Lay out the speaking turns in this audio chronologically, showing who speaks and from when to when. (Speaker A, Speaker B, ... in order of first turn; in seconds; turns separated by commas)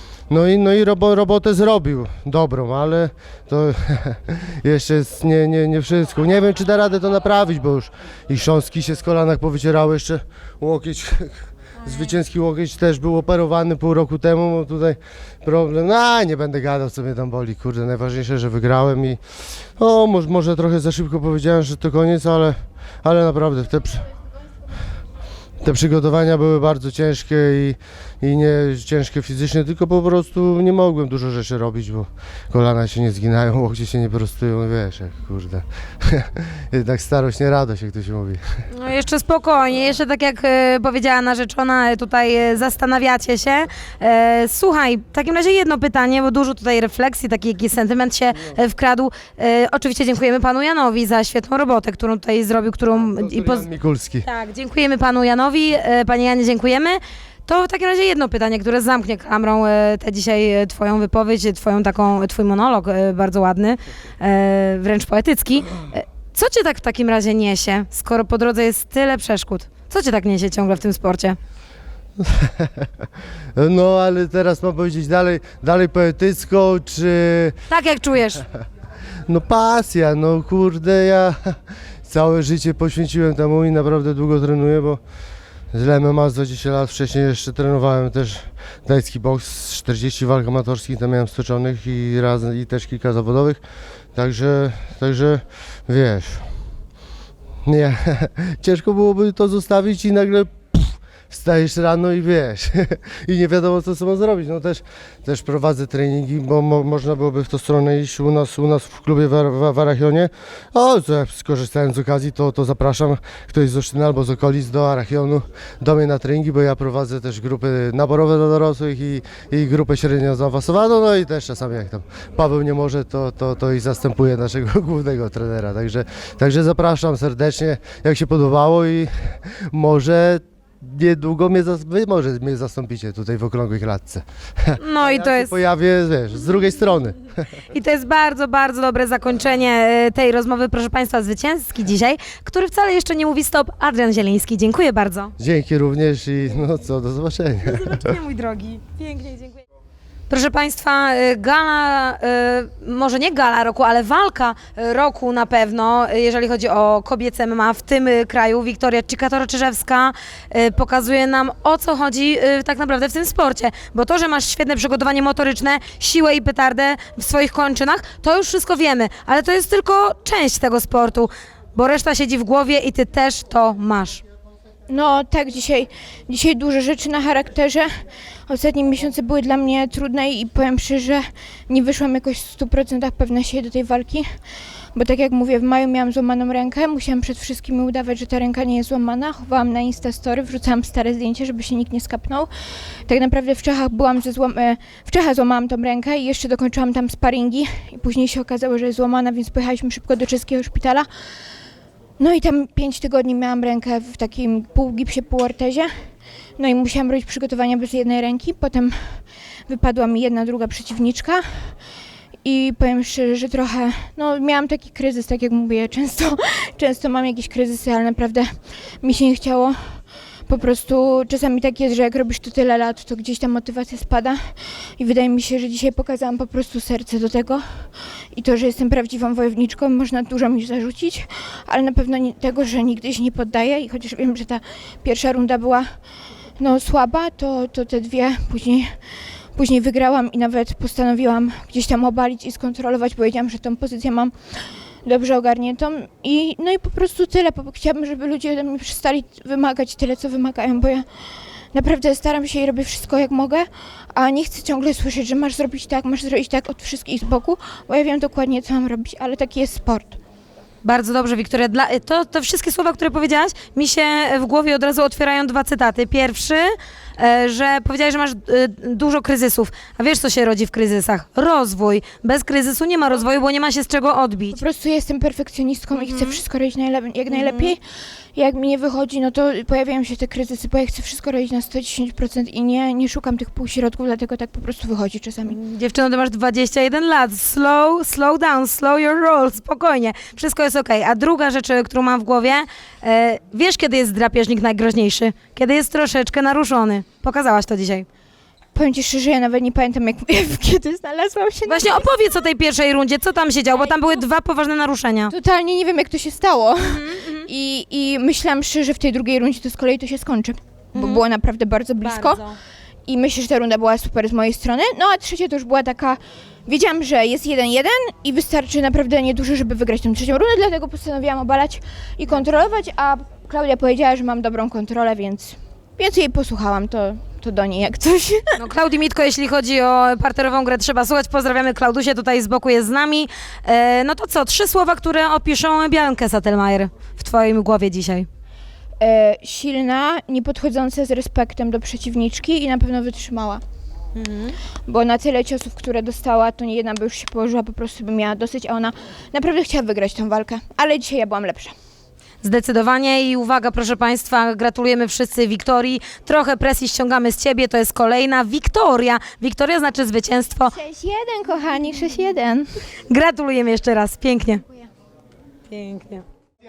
Speaker A: 0.3-19.2, Speaker A: 19.8-24.1, Speaker A: 25.6-38.4, Speaker B: 38.7-53.7, Speaker A: 52.9-54.3, Speaker B: 54.2-71.4, Speaker A: 72.2-72.9, Speaker A: 73.6-77.6, Speaker B: 77.7-78.4, Speaker A: 79.3-85.0, Speaker A: 85.7-93.6, Speaker A: 94.1-96.5, Speaker A: 97.7-137.3, Speaker B: 134.8-135.5, Speaker B: 137.7-145.3, Speaker A: 145.4-148.1, Speaker B: 147.6-149.6, Speaker B: 150.3-174.2, Speaker C: 174.9-177.9, Speaker C: 178.5-184.3, Speaker C: 184.9-192.5, Speaker C: 193.1-201.1, Speaker C: 202.2-205.9, Speaker C: 206.6-211.7, Speaker C: 212.4-219.8, Speaker C: 220.5-235.9, Speaker C: 236.6-239.0, Speaker C: 239.6-251.1, Speaker C: 251.7-260.2, Speaker B: 260.8-274.6, Speaker C: 274.5-277.8, Speaker B: 275.9-276.4, Speaker B: 277.3-277.7, Speaker C: 278.4-285.6, Speaker B: 285.5-298.1, Speaker C: 298.8-302.2, Speaker B: 301.7-305.3, Speaker C: 305.3-312.4, Speaker B: 306.8-307.5, Speaker B: 311.0-311.2, Speaker B: 312.0-312.5, Speaker C: 313.1-328.4, Speaker B: 328.6-338.3, Speaker C: 339.0-343.6, Speaker B: 344.2-344.6, Speaker C: 344.9-351.7, Speaker B: 352.4-360.8, Speaker C: 360.7-362.7, Speaker B: 363.1-364.6, Speaker B: 365.7-366.2